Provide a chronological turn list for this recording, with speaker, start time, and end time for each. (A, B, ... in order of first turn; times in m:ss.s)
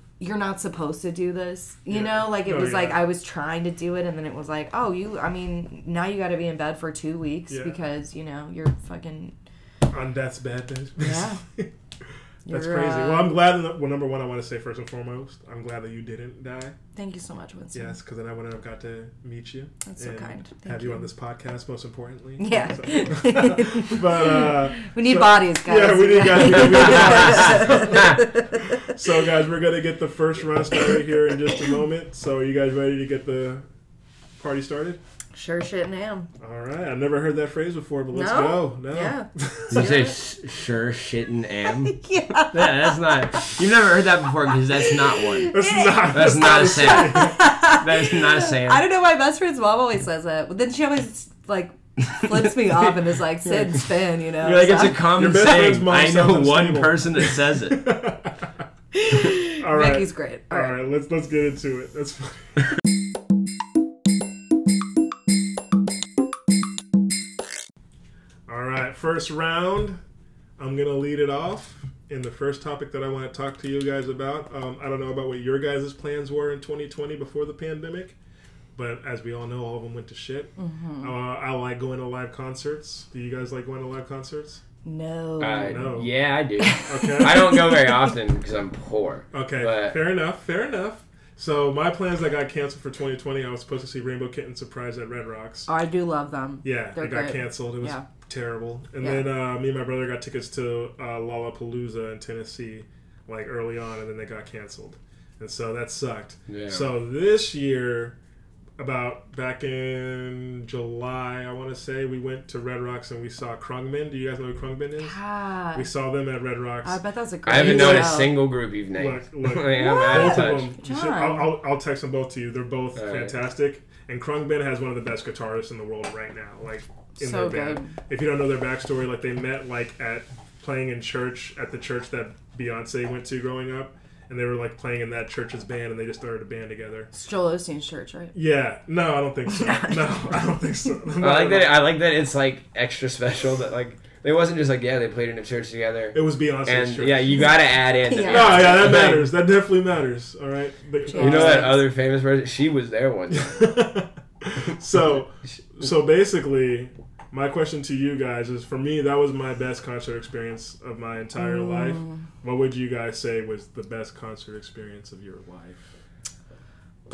0:00.2-0:09.3 A
0:01.9-0:03.0 B
0:07.5-0:07.8 B
0:09.9-0:11.7 B
0:11.0-0:11.4 A
0:12.4-0:13.4 A
0:12.5-0:16.8 B
0:16.9-0:18.0 A
0:17.7-0:33.6 B
0:19.8-0:21.1 A
0:22.4-0:28.9 A
0:26.9-0:28.2 C
0:34.4-0:35.0 B
0:35.3-0:36.3 A
0:36.4-0:39.8 B
0:38.1-0:40.2 A
0:39.7-0:45.6 C
0:41.8-0:43.5 A
0:44.7-0:55.1 A
0:45.5-0:47.4 B
0:46.1-0:48.8 C
0:52.3-0:52.8 C
0:53.5-0:53.8 C
0:54.4-0:57.9 C
0:55.1-0:58.5 B
0:58.9-1:00.7 A
0:59.6-1:02.6 B
1:08.5-1:10.0 B
1:10.6-1:18.2 B
1:18.8-1:24.6 B
1:20.6-1:21.1 A
1:24.8-1:25.9 A
1:25.4-1:30.0 C
1:25.6-1:26.1 B
1:26.6-1:28.1 A
1:26.8-1:27.5 B
1:29.3-1:35.7 B
1:35.7-1:38.0 A
1:36.6-1:48.2 B
1:39.0-1:39.3 A
1:46.5-1:46.9 C
1:48.8-1:55.2 B
1:55.0-1:55.9 A
1:55.7-1:57.0 B
1:56.8-1:58.3 A
1:57.4-2:00.7 C
1:57.6-1:58.2 B
1:59.0-2:17.1 B
1:59.7-2:01.6 A
2:03.0-2:03.3 C
2:07.2-2:07.9 A
2:17.1-2:18.3 A
2:18.3-2:21.8 B
2:19.5-2:20.3 A
2:21.2-2:29.3 C
2:26.1-2:27.5 B
2:28.0-2:28.9 A
2:28.3-2:31.8 B
2:31.1-2:31.8 A
2:31.1-2:33.8 C
2:33.3-2:45.9 B
2:41.4-2:42.2 A